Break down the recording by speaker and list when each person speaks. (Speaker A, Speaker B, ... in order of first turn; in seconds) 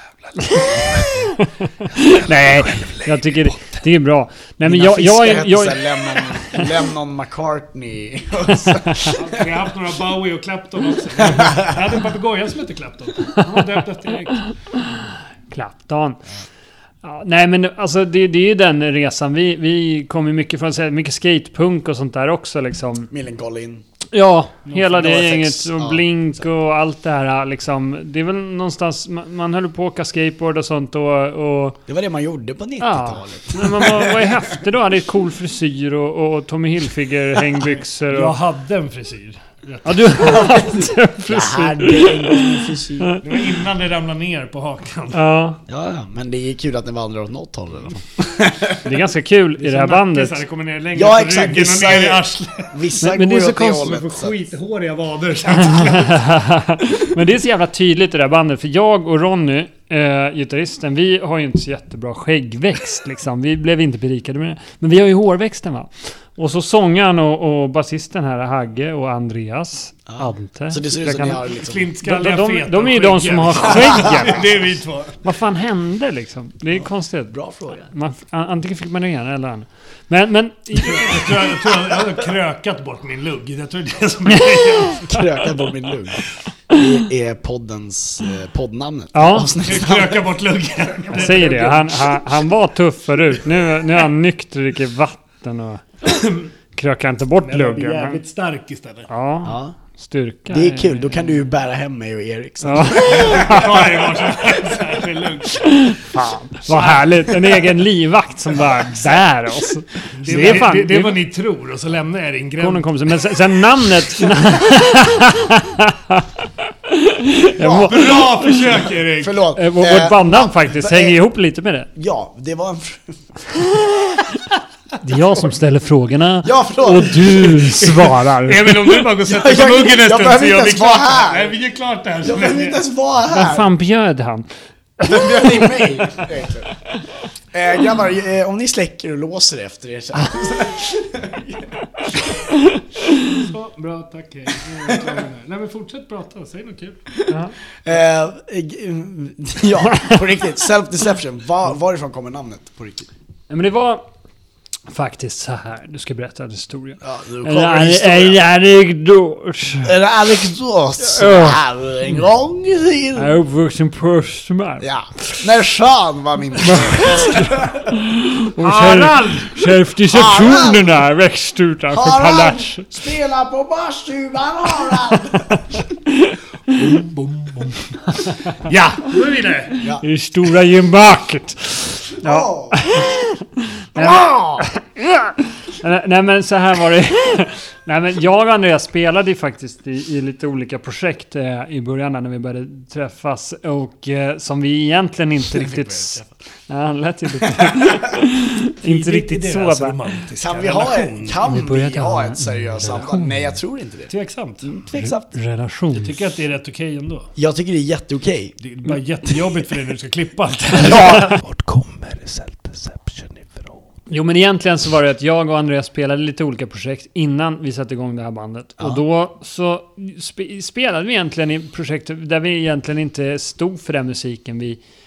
Speaker A: 0.2-1.1, 2.4-3.7, 9.2-14.5, 24.7-25.2, 38.1-40.5, 43.2-45.2, 49.6-52.8, 53.7-56.2, 71.5-75.2, 80.9-85.5, 89.6-92.2, 96.1-96.5, 97.4-99.1, 103.2-105.6, 110.1-112.9, 117.9-119.4, 128.4-132.8, 143.3-147.0, 168.6-169.7, 176.7-178.0, 179.0-179.7, 198.8-201.4, 204.1-204.7, 205.9-207.3, 208.6-213.8
Speaker B: 0.4-6.7, 8.5-9.1, 14.4-16.2, 17.0-23.1, 24.1-31.8, 32.8-38.4, 39.8-43.4, 45.1-45.6, 48.8-50.4, 53.0-53.9, 55.7-71.4, 72.0-74.4, 75.2-81.2, 84.4-84.9, 89.1-89.5, 91.1-96.2, 96.8-98.2, 99.1-101.1, 102.6-103.7, 105.7-111.2, 112.6-116.3, 116.9-118.3, 119.5-121.9, 125.0-129.0, 133.2-134.5, 135.0-136.0, 147.3-147.5, 149.9-150.2, 153.5-154.1, 154.9-159.9, 161.0-161.6, 163.1-165.4, 166.6-172.9, 176.1-176.3, 178.2-179.1, 179.8-200.0, 201.4-203.5, 204.9-206.2, 214.1-224.8
Speaker C: 4.6-9.5, 11.2-11.7, 23.1-23.8, 24.9-26.0, 31.9-34.6, 41.3-43.1, 45.7-48.8, 50.9-54.4, 70.1-71.8, 73.8-74.3, 76.8-77.9, 81.6-82.2, 85.1-90.3, 99.4-99.7, 100.5-104.2, 108.6-109.2, 110.3-110.7, 117.6-121.2, 121.9-124.3, 126.4-128.1, 129.2-131.5, 132.2-133.7, 135.0-136.7, 137.5-142.4, 147.8-153.1, 157.0-158.4, 159.8-163.3, 164.8-167.9, 170.1-170.9, 171.9-175.6, 182.2-182.9, 183.9-184.7, 195.5-196.3, 197.6-198.0, 200.4-204.1, 204.6-205.3, 207.3-208.5, 209.3-209.6, 210.8-211.3